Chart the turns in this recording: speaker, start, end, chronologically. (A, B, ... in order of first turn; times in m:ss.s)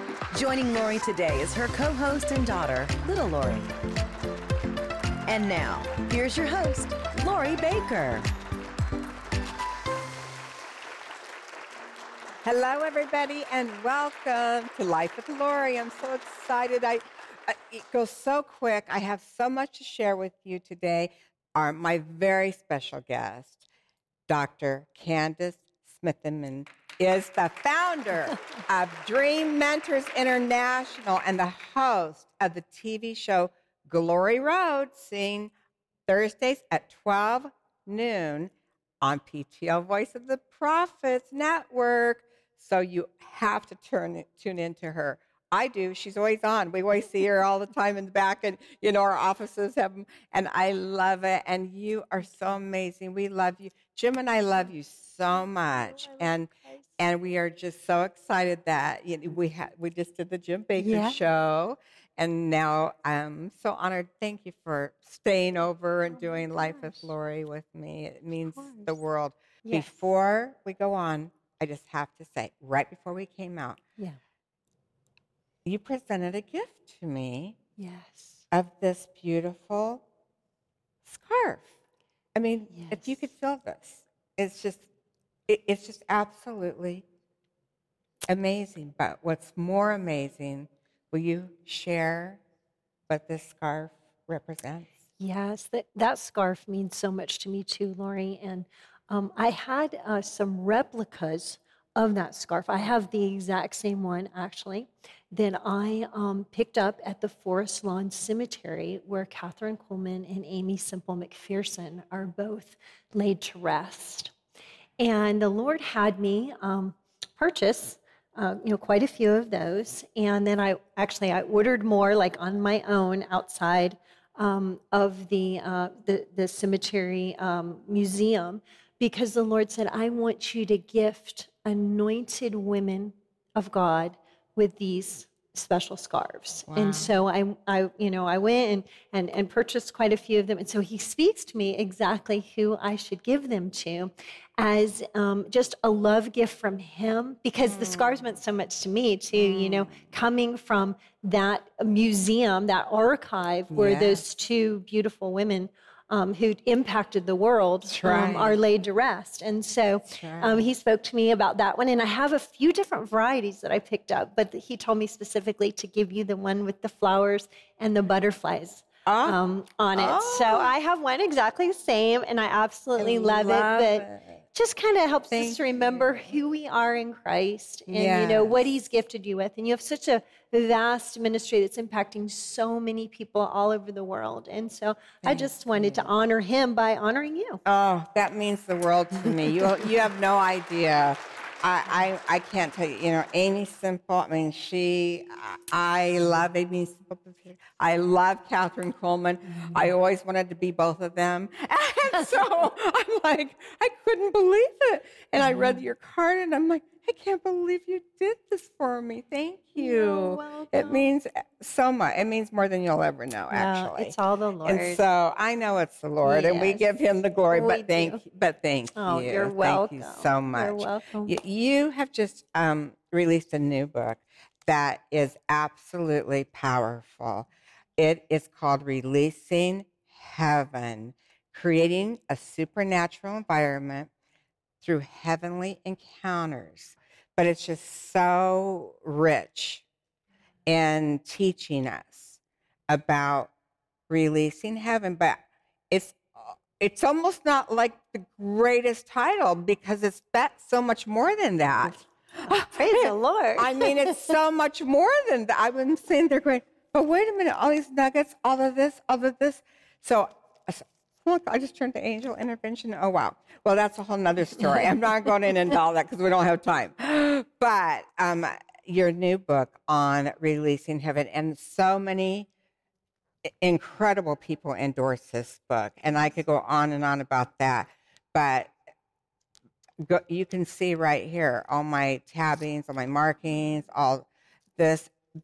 0:00.3-0:03.7 A
0:05.2-0:08.2 A
0:12.4-0:23.6 B
0:24.3-0:35.5 B
0:36.1-1:13.8 B
1:00.8-1:01.2 C
1:09.6-1:09.9 C
1:15.6-1:17.6 B
1:17.8-1:18.4 C
1:18.5-1:20.0 B
1:21.0-1:21.7 B
1:22.3-1:24.8 B
1:22.7-1:23.0 C
1:25.5-1:27.0 B
1:28.3-1:32.4 B
1:33.1-1:34.9 B
1:35.2-1:54.3 C
1:55.0-3:07.6 C
2:16.7-2:17.1 B
2:27.6-2:28.1 B
2:29.4-2:29.9 B
2:33.7-2:34.2 B
2:37.9-2:38.6 B
2:40.1-2:40.7 B
2:49.0-2:49.4 B
2:49.9-2:50.7 B
2:53.0-2:54.4 B
2:55.3-2:56.2 B
2:57.9-2:58.6 B
3:05.2-3:06.1 B
3:07.6-3:54.1 B
3:25.4-3:25.8 C
3:29.8-3:31.0 C
3:33.5-3:35.0 C
3:36.2-3:36.8 C
3:37.5-3:38.2 C
3:39.0-3:41.4 C
3:54.8-3:59.8 B
4:00.7-4:03.5 B
4:04.1-4:32.5 B
4:12.5-4:14.3 C
4:33.4-4:38.7 B
4:40.0-4:45.1 B